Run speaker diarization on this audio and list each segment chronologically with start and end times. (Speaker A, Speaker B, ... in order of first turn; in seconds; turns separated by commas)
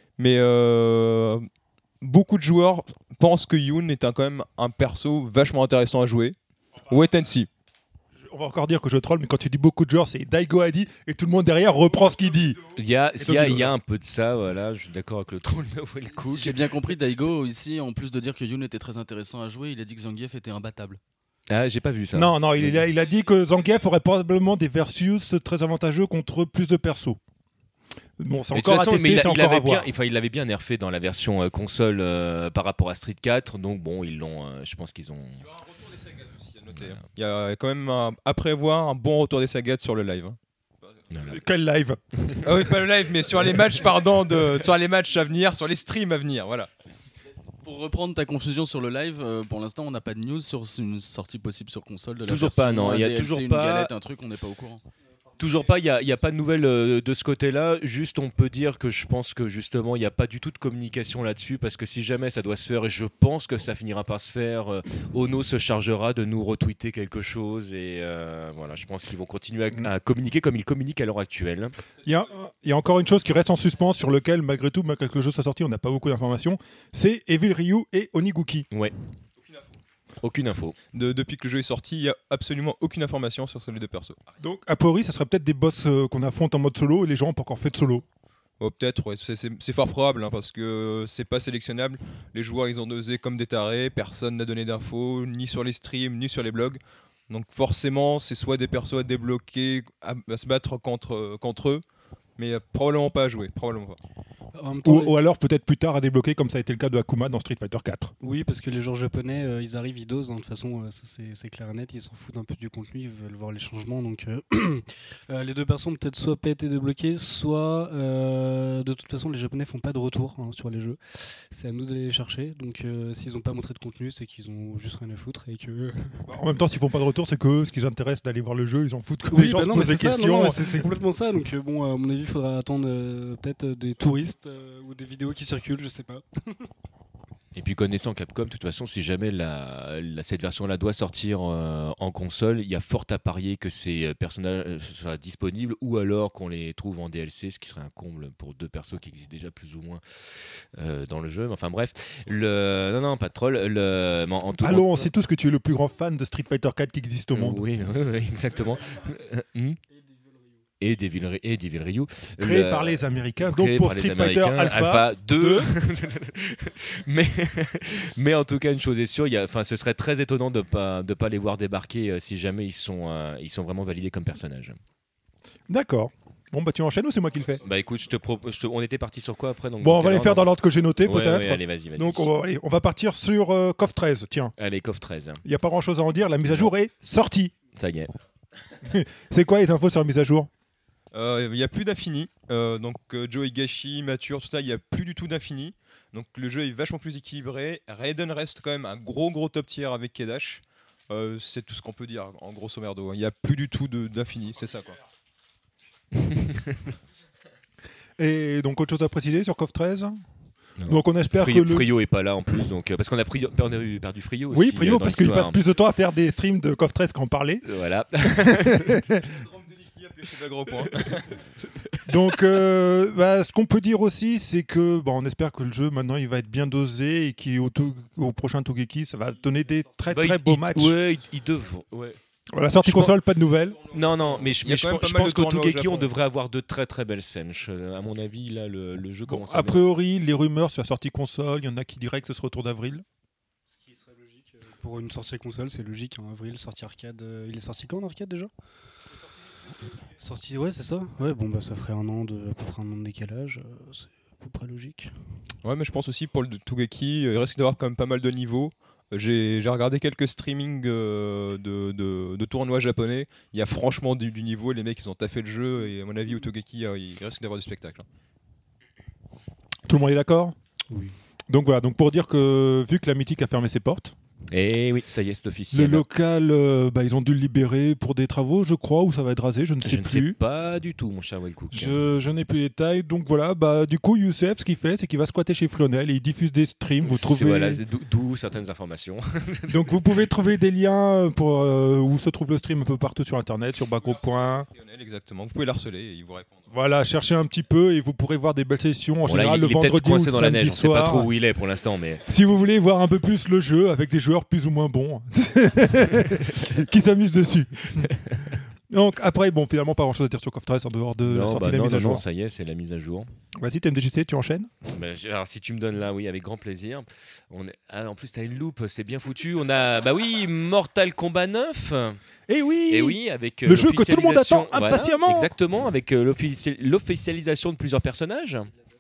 Speaker A: 0.2-1.5, Speaker A: 2.0-6.4, Speaker A: 6.9-7.5, Speaker B: 8.2-12.6, Speaker C: 12.8-16.6, Speaker B: 13.2-13.8, Speaker D: 16.2-21.0, Speaker C: 21.5-22.8, Speaker B: 22.1-27.2, Speaker B: 28.2-29.9, Speaker C: 28.5-35.4, Speaker A: 35.5-41.2, Speaker C: 41.1-41.4, Speaker B: 41.3-42.7, Speaker A: 42.4-46.7, Speaker D: 47.6-54.8, Speaker C: 52.3-53.9, Speaker C: 55.4-71.8, Speaker B: 72.0-78.7, Speaker A: 79.4-79.8, Speaker C: 80.2-80.8, Speaker A: 80.9-84.3, Speaker B: 84.4-88.0, Speaker A: 88.6-101.8, Speaker A: 102.4-104.0, Speaker E: 104.5-105.1, Speaker B: 104.8-108.1, Speaker E: 108.2-121.0, Speaker E: 121.5-126.3, Speaker B: 126.3-131.0, Speaker E: 129.3-136.7, Speaker C: 137.6-155.1, Speaker B: 154.6-157.6, Speaker C: 157.3-159.8, Speaker E: 159.9-160.7, Speaker C: 160.8-174.8, Speaker B: 162.4-165.7, Speaker B: 175.7-177.6, Speaker C: 177.6-180.5, Speaker B: 179.8-184.5, Speaker C: 181.0-182.3, Speaker C: 184.6-185.4, Speaker B: 185.4-187.5, Speaker C: 187.8-188.1, Speaker B: 188.8-190.5, Speaker A: 191.1-205.0, Speaker C: 206.2-206.9, Speaker B: 208.2-210.2, Speaker C: 210.8-215.6, Speaker B: 210.9-211.9, Speaker B: 214.5-217.6, Speaker C: 217.6-219.0, Speaker B: 218.2-219.4, Speaker A: 219.3-221.4, Speaker C: 221.8-222.1, Speaker B: 222.1-231.0, Speaker C: 230.1-232.2, Speaker B: 232.5-233.8, Speaker C: 232.8-233.2, Speaker C: 233.9-239.8, Speaker A: 234.0-236.1, Speaker B: 239.3-243.1, Speaker E: 243.7-248.5, Speaker E: 250.2-255.1, Speaker A: 255.6-268.1, Speaker B: 269.9-270.6, Speaker E: 270.9-271.1, Speaker B: 271.5-274.1, Speaker C: 274.5-276.1, Speaker B: 275.7-280.4, Speaker C: 279.8-282.0, Speaker B: 281.7-287.8, Speaker C: 287.0-290.0, Speaker B: 289.7-294.7, Speaker A: 293.9-296.7, Speaker B: 296.7-301.3, Speaker C: 299.3-302.2, Speaker B: 302.3-312.2, Speaker C: 308.1-308.4, Speaker C: 311.3-313.3, Speaker B: 313.6-314.7, Speaker C: 314.9-322.2, Speaker B: 322.5-325.5, Speaker C: 322.9-328.7